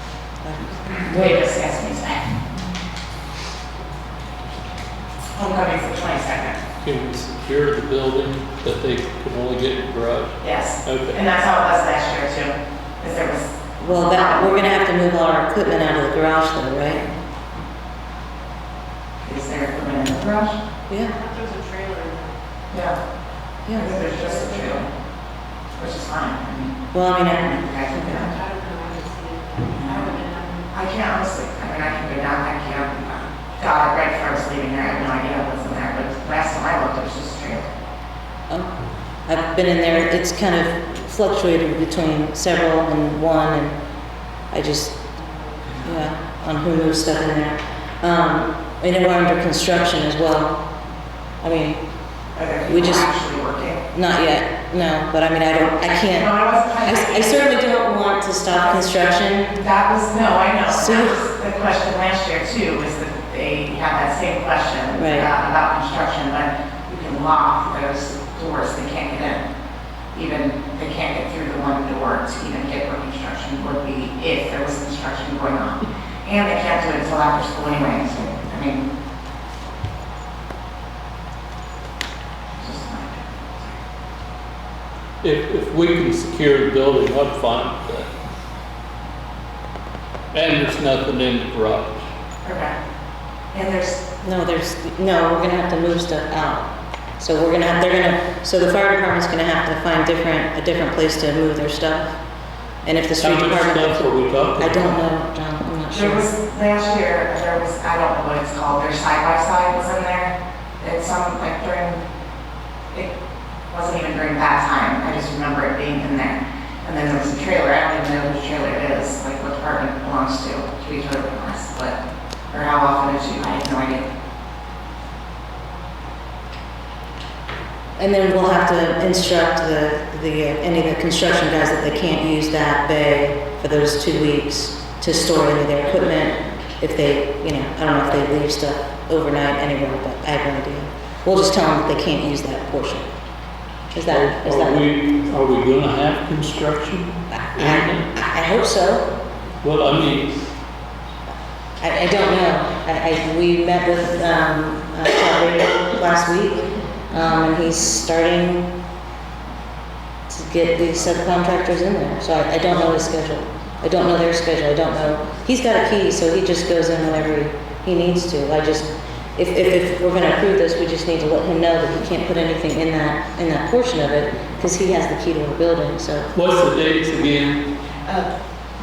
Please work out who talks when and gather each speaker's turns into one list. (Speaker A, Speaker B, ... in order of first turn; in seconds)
Speaker A: 0.4-1.4, 13.8-17.1, 20.9-21.2, 23.7-24.1, 26.9-28.3, 38.5-43.8, 44.5-45.0, 45.7-50.6, 51.4-52.0, 52.7-53.1, 53.9-59.5, 60.7-61.2, 64.9-65.3, 94.2-102.2, 102.8-106.2, 128.0-143.1, 143.9-144.9, 147.3-149.1, 151.8-158.7, 160.3-176.3
Speaker B: 1.1-2.3, 5.3-6.6, 10.4-14.7, 19.2-20.6, 22.7-23.0, 23.7-24.9, 25.8-28.3, 29.7-37.6, 52.3-53.8, 56.1-57.4, 59.5-69.4, 70.1-78.8, 82.6-83.8, 92.4-92.7, 93.5-94.0, 105.9-112.0, 113.7-122.0, 122.5-124.1, 178.0-178.3
Speaker C: 6.8-11.2, 85.2-88.1, 90.3-92.0, 103.2-104.9, 144.1-148.1, 149.6-150.3, 176.3-177.6
Speaker D: 21.1-22.4, 24.1-24.6, 28.3-30.7